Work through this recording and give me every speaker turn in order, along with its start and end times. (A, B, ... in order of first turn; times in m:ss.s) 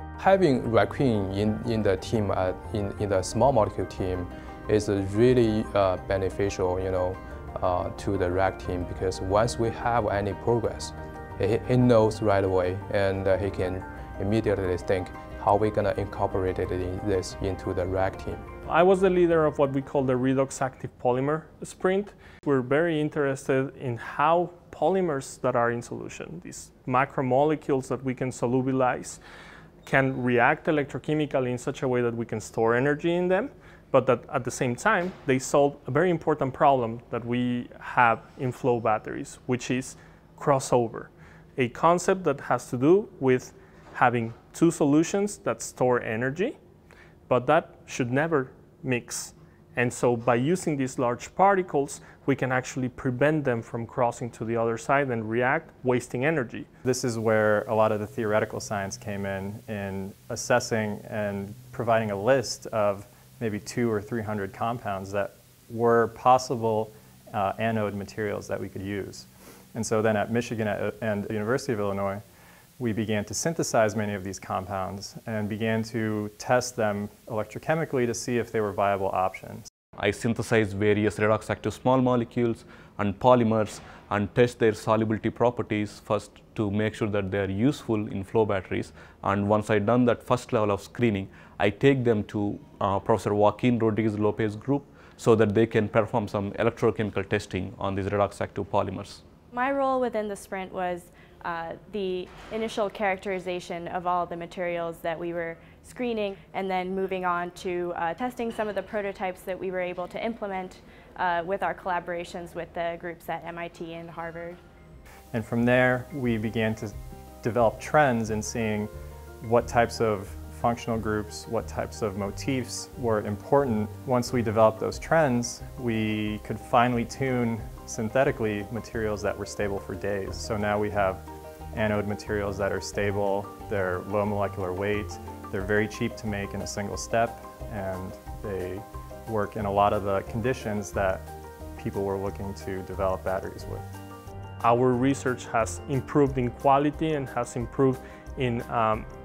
0:00.2-0:18.4 A
0:18.6-0:29.2 B
0:29.8-0:46.6 B
0:47.3-0:56.7 B
0:56.8-1:12.2 C
1:12.8-1:19.6 C
1:20.0-1:39.2 D
1:39.5-1:54.6 E
1:55.3-1:58.9 C
1:59.4-2:23.9 C
2:24.6-2:29.0 B